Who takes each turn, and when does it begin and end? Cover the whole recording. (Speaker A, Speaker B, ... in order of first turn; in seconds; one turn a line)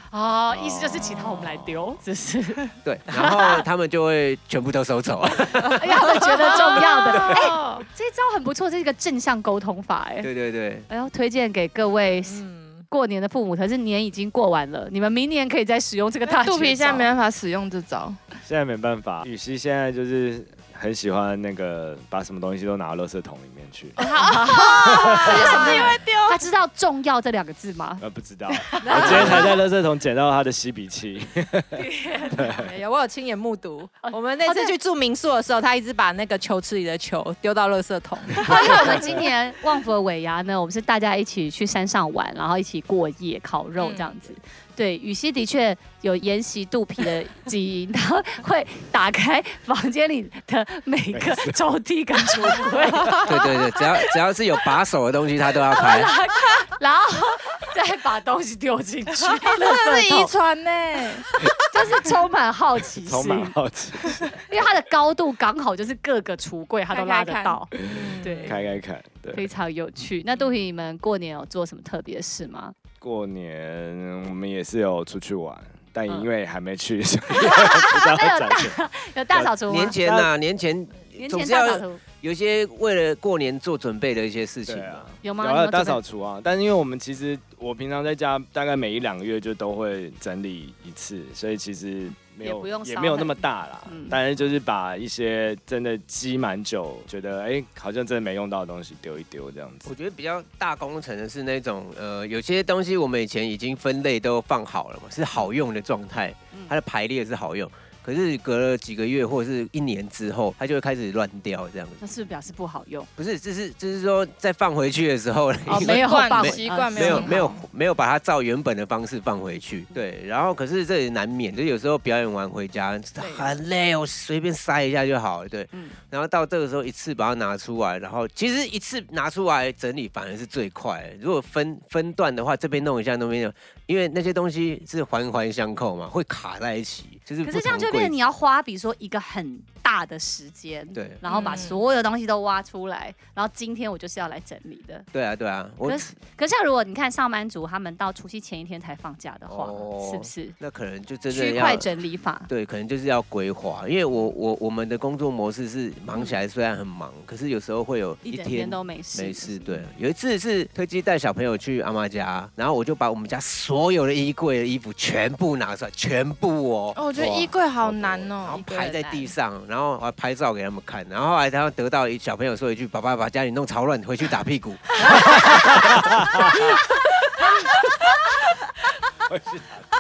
Speaker A: 0.1-3.6
Speaker B: 0.5-2.0
Speaker C: 2.8-6.0
Speaker A: 5.6-10.3
Speaker D: 6.5-6.8
Speaker E: 6.5-7.9
Speaker C: 10.2-10.9
Speaker A: 10.9-17.1
Speaker D: 12.2-12.8
Speaker E: 16.2-18.2
Speaker B: 18.5-24.0
Speaker E: 24.0-26.2
Speaker D: 24.0-26.4
Speaker B: 24.8-25.3
Speaker A: 25.1-29.6
Speaker B: 28.0-32.7
Speaker D: 28.9-29.4
Speaker A: 31.8-32.5
Speaker D: 32.5-39.1
Speaker A: 34.0-34.7
Speaker A: 38.4-54.0
Speaker B: 51.1-51.6
Speaker C: 53.2-56.1
Speaker A: 55.7-60.3
Speaker E: 59.2-61.3
Speaker A: 61.7-63.6
Speaker B: 63.0-64.4
Speaker A: 64.5-68.6
Speaker E: 66.9-67.6
Speaker B: 67.8-69.5
Speaker D: 67.9-68.6
Speaker A: 69.3-72.8
Speaker B: 73.0-78.8
Speaker A: 77.4-80.0
Speaker B: 79.3-80.3
Speaker C: 79.7-85.1
Speaker A: 81.2-82.0
Speaker B: 84.7-99.9
Speaker A: 85.2-86.0
Speaker A: 92.4-94.2
Speaker C: 99.8-112.0
Speaker A: 112.0-113.1
Speaker C: 113.2-138.1
Speaker A: 115.7-117.4
Speaker E: 115.7-117.6
Speaker A: 137.4-145.1
Speaker C: 140.9-141.2
Speaker E: 141.3-141.8
Speaker C: 145.1-146.1
Speaker A: 145.8-150.6
Speaker C: 149.5-151.9
Speaker A: 151.3-152.5
Speaker C: 152.5-167.0
Speaker A: 158.3-159.8
Speaker E: 166.9-168.8
Speaker B: 167.2-167.5
Speaker C: 167.8-175.6
Speaker D: 168.5-169.3
Speaker A: 175.1-178.4
Speaker B: 175.1-176.8
Speaker B: 179.3-179.8